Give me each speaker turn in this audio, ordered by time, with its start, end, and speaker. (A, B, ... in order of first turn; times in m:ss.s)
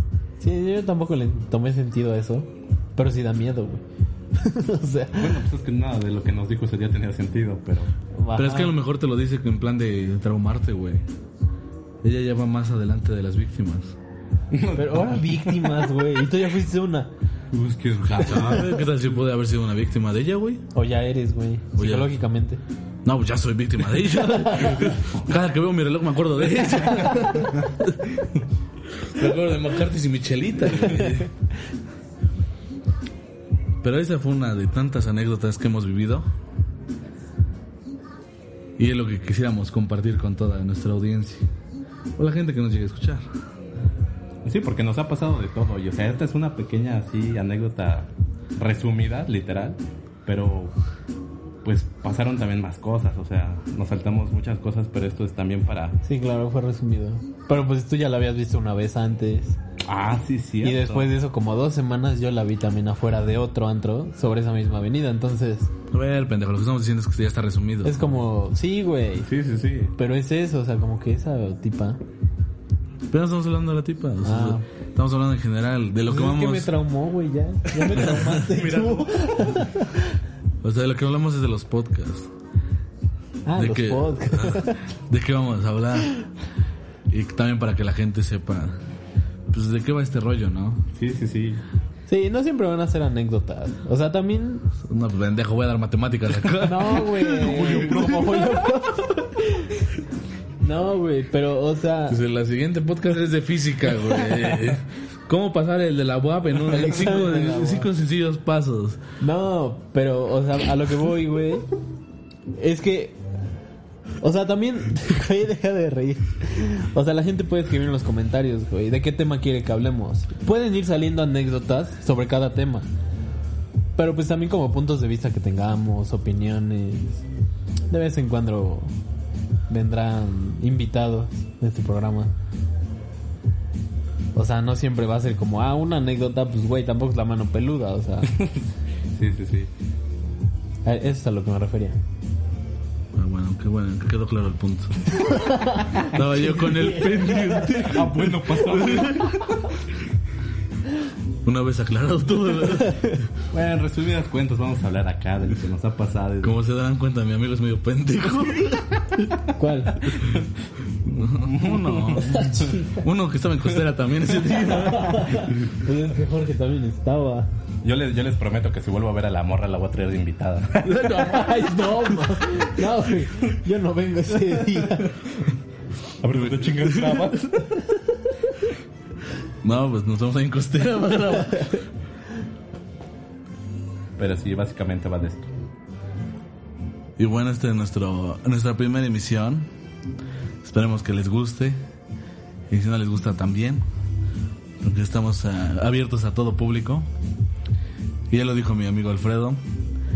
0:00.4-0:03.8 A
0:04.4-0:05.4 A
0:05.1-0:07.9 B
0:08.2-0:08.8 A
0:08.3-0:11.0 C
0:12.0-0:14.0 C
0:14.5-0:15.9 B
0:14.8-0:17.1 A
0:17.5-0:18.7 B
0:18.2-0:20.6 C
0:20.7-0:22.6 A
0:21.8-0:22.1 C
0:23.0-0:28.0 C
0:24.2-0:24.9 A
0:29.0-0:31.3 C
0:33.8-0:36.3 C
0:38.8-0:41.5 C
0:42.2-0:43.2 C
0:44.4-0:50.8 B
0:51.6-0:56.0 B
0:56.0-0:59.6 A
0:59.9-1:01.1 B
1:00.6-1:05.7 A
1:05.9-1:08.1 C
1:07.8-1:09.3 A
1:09.2-1:09.9 B
1:10.0-1:12.0 A
1:13.1-1:16.7 C
1:14.2-1:14.6 A
1:16.1-1:20.1 A
1:17.8-1:19.6 B
1:18.0-1:18.3 C
1:20.6-1:22.3 C
1:23.4-1:24.8 A
1:23.6-1:26.1 C
1:27.1-1:28.8 C
1:29.5-1:30.8 C
1:31.0-1:31.6 B
1:32.1-1:34.7 A
1:34.8-1:38.2 C
1:36.6-1:39.7 A
1:37.3-1:38.7 B
1:40.6-1:42.2 A
1:42.1-1:49.0 C
1:44.0-1:44.6 A
1:46.6-1:47.9 A
1:49.2-1:51.7 A
1:52.5-1:53.2 A
1:54.2-2:02.9 A
2:04.0-2:07.2 A
2:07.9-2:08.9 A
2:09.7-2:12.3 A
2:14.4-2:18.3 A
2:18.3-2:19.7 B
2:20.8-2:22.0 A
2:23.2-2:25.2 C
2:25.2-2:27.8 A
2:25.8-2:29.4 C
2:27.8-2:29.5 B
2:31.4-2:33.2 C
2:33.5-2:36.6 B
2:36.4-2:39.2 C
2:39.6-2:40.1 A
2:41.0-2:45.5 C
2:41.4-2:42.8 B
2:42.3-2:42.9 A
2:44.6-2:47.5 A
2:47.8-2:51.4 B
2:50.9-2:52.1 C
2:50.9-2:55.2 A
2:56.2-2:57.8 B
2:56.3-2:57.3 C
2:59.6-3:01.8 C
3:04.2-3:05.5 B
3:07.2-3:09.7 C
3:10.6-3:11.8 C
3:12.7-3:13.8 C
3:14.8-3:17.1 C
3:18.3-3:19.6 C